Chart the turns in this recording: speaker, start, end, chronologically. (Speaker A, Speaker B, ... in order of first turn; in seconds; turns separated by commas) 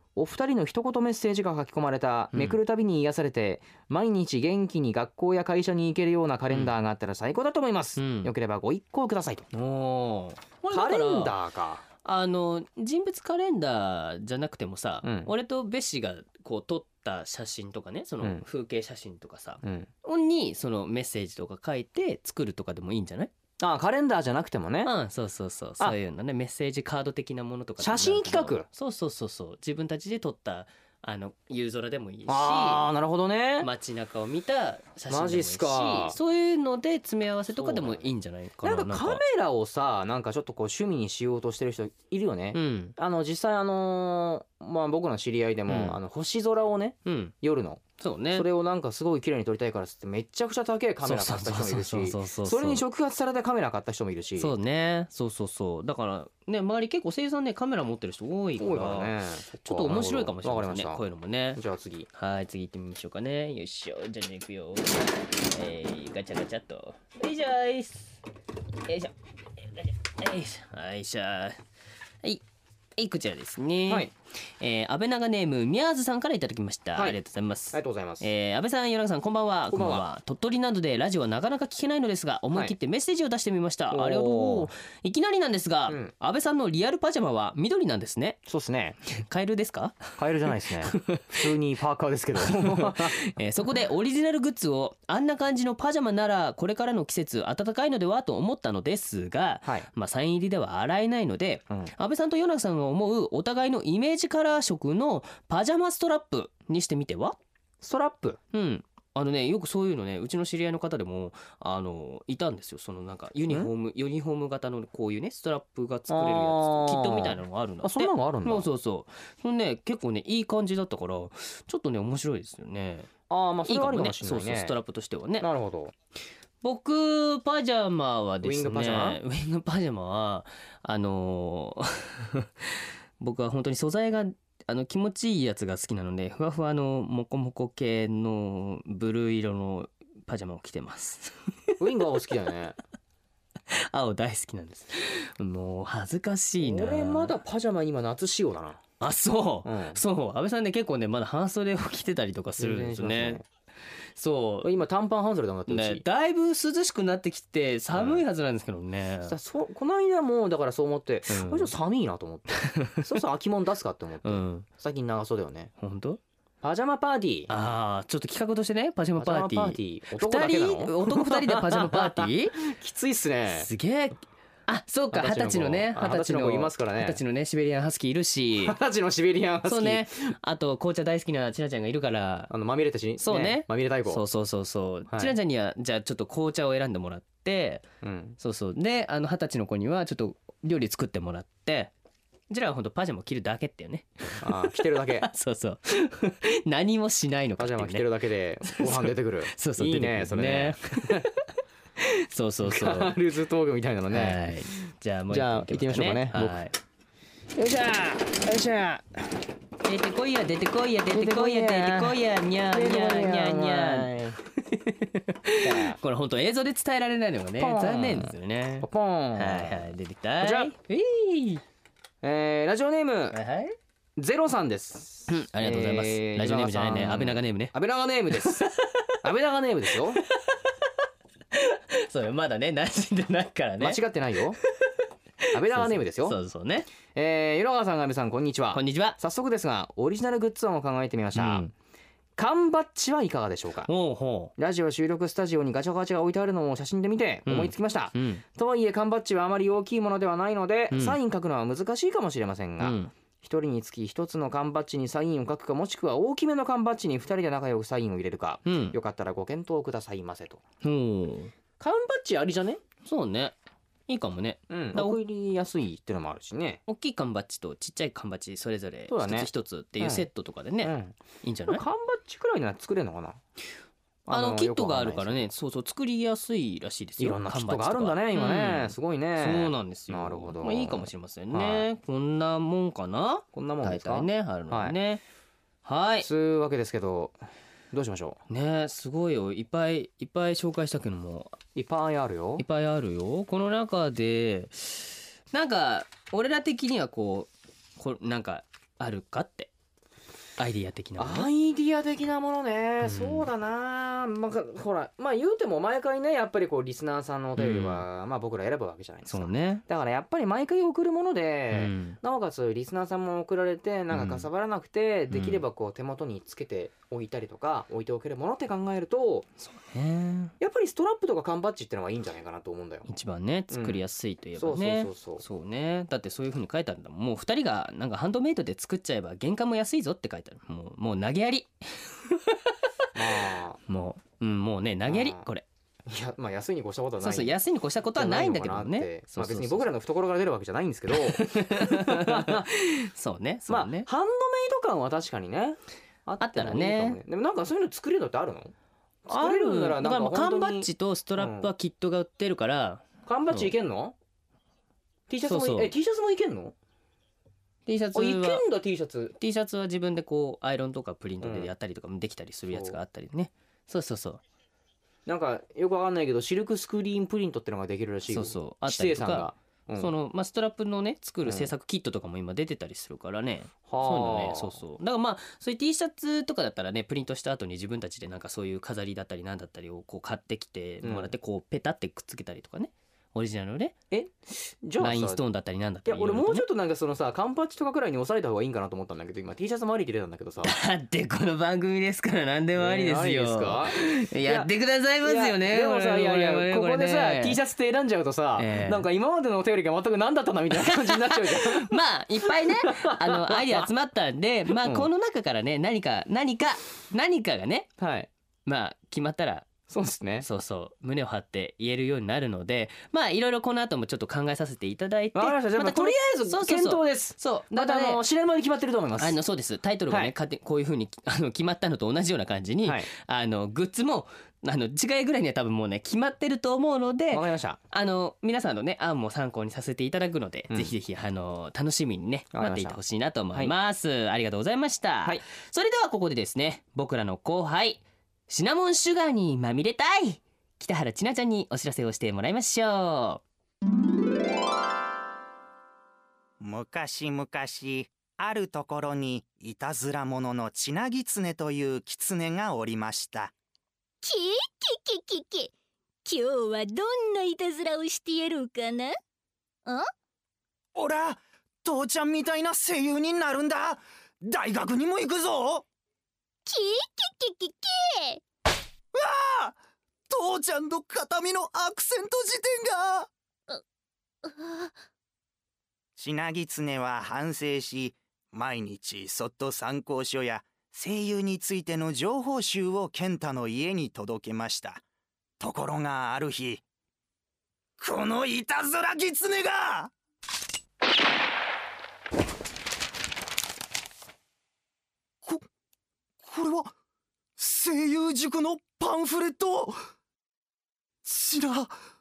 Speaker A: 0.2-9.5, Speaker B: 2.3-2.6, Speaker B: 8.0-8.3, Speaker B: 9.5-11.3, Speaker A: 10.7-11.8, Speaker B: 12.0-23.3, Speaker A: 15.0-15.3, Speaker A: 19.6-19.9, Speaker A: 23.6-24.9, Speaker B: 24.8-32.9, Speaker A: 27.8-28.7, Speaker A: 32.3-33.7, Speaker B: 33.6-39.2, Speaker A: 35.1-36.2, Speaker A: 37.5-54.5, Speaker B: 42.5-43.0, Speaker B: 45.7-46.0, Speaker B: 47.1-47.3, Speaker B: 48.0-48.5, Speaker B: 51.0-52.8, Speaker B: 54.4-61.6, Speaker A: 58.6-61.0, Speaker A: 61.5-62.1, Speaker B: 62.1-68.2, Speaker B: 68.8-71.6, Speaker B: 73.0-88.4, Speaker A: 73.9-74.1, Speaker A: 77.7-78.3, Speaker A: 79.7-80.1, Speaker A: 83.9-84.7, Speaker A: 88.5-89.0, Speaker B: 89.1-90.2, Speaker A: 90.2-93.2, Speaker B: 90.8-91.3, Speaker B: 92.4-107.4, Speaker A: 107.8-108.4, Speaker B: 108.5-123.1, Speaker A: 116.1-118.7, Speaker A: 123.3-124.8, Speaker B: 123.7-125.5, Speaker A: 125.4-125.9, Speaker B: 126.6-132.7, Speaker A: 128.4-129.2, Speaker B: 133.2-141.7, Speaker A: 141.8-142.8, Speaker B: 143.7-147.3, Speaker A: 146.6-148.8, Speaker B: 149.0-153.4, Speaker A: 149.7-150.0, Speaker A: 152.6-153.4, Speaker B: 154.2-154.7, Speaker A: 154.6-156.0, Speaker B: 155.7-159.3, Speaker A: 157.9-158.2, Speaker A: 159.2-165.7, Speaker B: 161.3-161.7, Speaker B: 162.6-163.0, Speaker B: 164.2-164.7, Speaker B: 165.8-166.2, Speaker A: 166.6-167.5, Speaker B: 167.5-172.6, Speaker A: 169.2-173.7, Speaker B: 173.6-178.8, Speaker A: 175.1-177.2, Speaker A: 178.6-180.1, Speaker B: 179.6-182.5, Speaker A: 182.5-184.2, Speaker B: 183.2-187.8, Speaker A: 185.1-185.3, Speaker A: 188.0-188.4, Speaker B: 188.4-191.9, Speaker B: 192.5-198.1, Speaker A: 194.4-195.3, Speaker A: 197.6-201.3, Speaker B: 198.7-201.3, Speaker B: 202.0-203.2, Speaker A: 202.7-204.4, Speaker B: 204.1-206.8, Speaker A: 205.3-206.6, Speaker A: 207.6-209.4, Speaker B: 209.8-221.6, Speaker A: 211.1-212.2, Speaker A: 212.7-214.4, Speaker A: 215.6-216.0, Speaker A: 217.6-219.9, Speaker A: 220.4-220.7, Speaker A: 222.2-223.4, Speaker B: 223.3-223.8, Speaker A: 224.2-228.7, Speaker B: 225.3-227.8, Speaker B: 228.4-229.1, Speaker A: 229.2-230.2, Speaker B: 231.5-234.0, Speaker A: 233.8-234.6, Speaker B: 235.5-236.9, Speaker A: 235.5-236.4, Speaker A: 237.1-241.7, Speaker B: 238.7-239.2, Speaker B: 241.3-241.7, Speaker A: 242.4-243.9, Speaker B: 243.9-244.5, Speaker A: 244.6-260.6, Speaker B: 247.5-248.4, Speaker B: 250.9-251.2, Speaker B: 252.8-253.1, Speaker B: 258.7-259.0, Speaker B: 260.8-261.5, Speaker A: 261.8-262.8, Speaker B: 263.1-263.6, Speaker B: 264.1-265.2, Speaker A: 264.7-266.8, Speaker B: 266.9-271.8, Speaker A: 269.1-269.5, Speaker A: 270.0-270.3, Speaker A: 270.8-273.4, Speaker A: 274.3-275.5, Speaker B: 274.3-285.2, Speaker A: 277.2-281.9, Speaker A: 283.5-285.0, Speaker B: 285.9-286.3, Speaker A: 286.2-287.4, Speaker A: 287.9-288.4, Speaker B: 288.5-291.6, Speaker A: 291.8-292.6, Speaker B: 292.6-299.7, Speaker B: 300.6-301.5, Speaker A: 301.2-319.5, Speaker B: 303.0-303.5, Speaker B: 307.6-308.0, Speaker B: 309.3-309.8, Speaker B: 311.7-312.2, Speaker B: 314.1-314.5, Speaker B: 315.3-315.6, Speaker B: 319.6-320.5, Speaker A: 320.6-323.1, Speaker B: 323.1-332.6, Speaker A: 323.7-324.0, Speaker A: 324.6-325.4, Speaker A: 333.1-333.8, Speaker B: 333.9-335.7, Speaker A: 335.1-335.5, Speaker A: 336.1-337.6, Speaker B: 337.2-339.9, Speaker A: 338.1-342.7, Speaker B: 341.1-344.1, Speaker A: 343.7-348.7, Speaker B: 346.4-347.2, Speaker A: 349.2-351.7, Speaker B: 349.3-353.7, Speaker A: 353.2-354.1, Speaker A: 355.3-356.8, Speaker B: 355.5-355.9, Speaker B: 357.9-358.6, Speaker A: 358.1-359.3, Speaker B: 359.4-364.4, Speaker A: 361.4-361.7, Speaker A: 362.7-363.0, Speaker A: 365.3-370.1, Speaker B: 368.3-383.9, Speaker A: 371.4-371.7, Speaker A: 373.9-374.8, Speaker A: 381.0-381.3, Speaker A: 384.1-385.4, Speaker B: 385.0-386.7, Speaker A: 386.1-390.7, Speaker B: 390.6-397.6, Speaker A: 392.8-394.7, Speaker A: 395.2-401.9, Speaker B: 398.6-399.1, Speaker B: 400.7-407.9, Speaker A: 402.5-403.9, Speaker A: 404.8-405.1, Speaker A: 408.0-408.3, Speaker B: 408.7-409.7, Speaker A: 409.9-410.5, Speaker B: 410.4-418.2, Speaker A: 415.4-419.4, Speaker B: 419.2-443.4, Speaker A: 420.1-420.3, Speaker A: 422.8-423.1, Speaker A: 427.3-427.8, Speaker A: 430.7-430.9, Speaker A: 432.5-433.0, Speaker C: 446.6-453.5, Speaker D: 454.2-455.7, Speaker D: 456.2-459.2, Speaker C: 460.9-465.9, Speaker D: 466.7-468.4, Speaker C: 469.1-469.8, Speaker C: 470.3-473.3, Speaker D: 474.4-474.9, Speaker C: 476.2-485.0, Speaker C: 485.6-486.8, Speaker C: 488.0-490.1, Speaker C: 496.4-496.9, Speaker C: 497.6-500.0, Speaker C: 501.2-501.9